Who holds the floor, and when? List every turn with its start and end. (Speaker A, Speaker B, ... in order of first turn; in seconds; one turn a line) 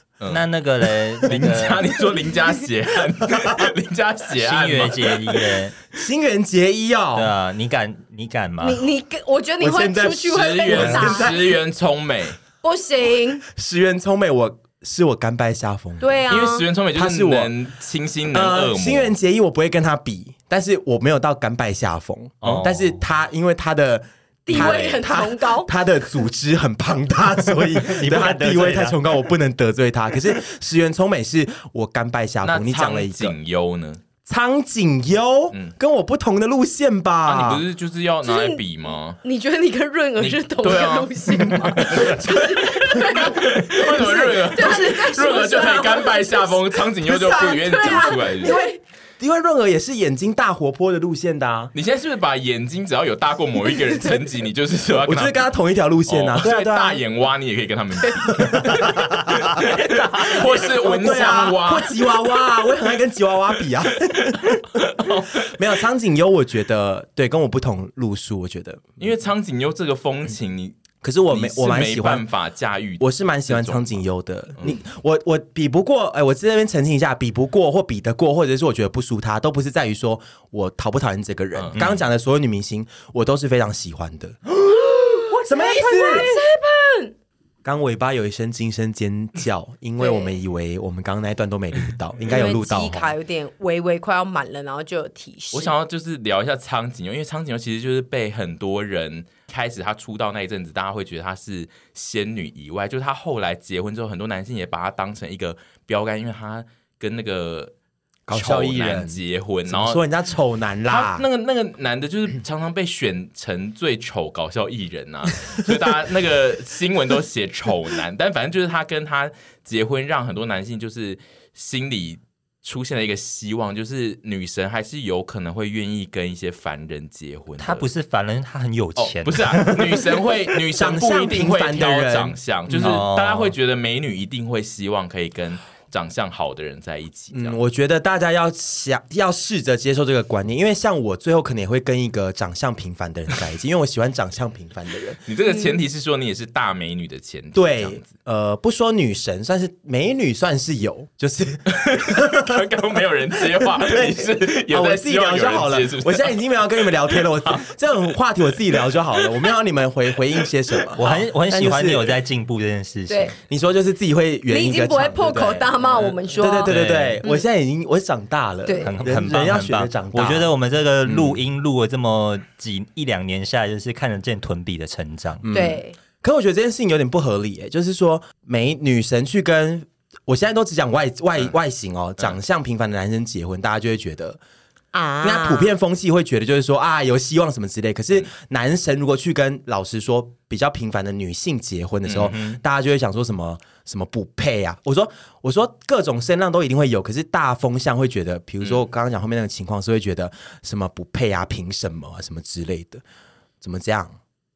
Speaker A: 0.2-0.5
Speaker B: 0.3-1.9
Speaker A: 1.2-5.6
Speaker C: 3.3-3.7
Speaker B: 4.3-5.7
Speaker C: 6.0-7.3
Speaker B: 7.2-8.8
Speaker D: 8.6-11.4
Speaker C: 9.6-11.6
Speaker A: 10.3-12.4
Speaker D: 12.6-13.4
Speaker C: 13.5-16.2
Speaker D: 16.0-16.7
Speaker A: 16.3-19.1
Speaker C: 16.9-17.5
Speaker C: 18.3-33.4
Speaker B: 22.4-23.0
Speaker D: 24.5-25.7
Speaker B: 27.6-29.0
Speaker A: 32.4-34.0
Speaker C: 34.3-37.6
Speaker A: 37.2-39.2
Speaker D: 38.2-38.6
Speaker D: 39.2-48.8
Speaker A: 40.2-42.2
Speaker C: 41.5-43.3
Speaker A: 43.1-48.6
Speaker C: 44.7-46.0
Speaker C: 47.1-51.7
Speaker A: 51.7-55.4
Speaker D: 53.8-54.1
Speaker C: 55.1-57.0
Speaker A: 56.1-62.1
Speaker C: 58.4-69.1
Speaker D: 60.2-61.5
Speaker A: 64.3-65.6
Speaker A: 69.0-74.0
Speaker C: 71.0-72.2
Speaker C: 73.0-86.3
Speaker A: 81.5-81.8
Speaker D: 84.8-87.1
Speaker C: 87.6-93.1
Speaker D: 90.0-90.4
Speaker D: 92.3-95.7
Speaker A: 95.5-107.7
Speaker C: 108.3-111.2
Speaker A: 108.3-110.0
Speaker A: 110.9-127.9
Speaker B: 127.6-130.4
Speaker A: 129.0-137.6
Speaker C: 130.7-133.0
Speaker B: 132.7-133.6
Speaker C: 137.3-145.2
Speaker A: 145.3-148.1
Speaker D: 145.4-145.8
Speaker C: 147.5-152.5
Speaker A: 151.7-157.7
Speaker C: 153.6-162.2
Speaker A: 159.2-159.5
Speaker B: 161.0-163.4
Speaker A: 161.0-161.3
Speaker D: 163.1-163.3
Speaker C: 163.5-170.5
Speaker D: 164.5-167.5
Speaker B: 166.7-167.2
Speaker D: 168.7-168.9
Speaker B: 168.8-175.5
Speaker C: 171.1-171.4
Speaker C: 175.4-184.4
Speaker D: 175.5-176.0
Speaker D: 184.9-185.7
Speaker C: 185.2-203.0
Speaker A: 192.1-192.3
Speaker C: 203.6-204.2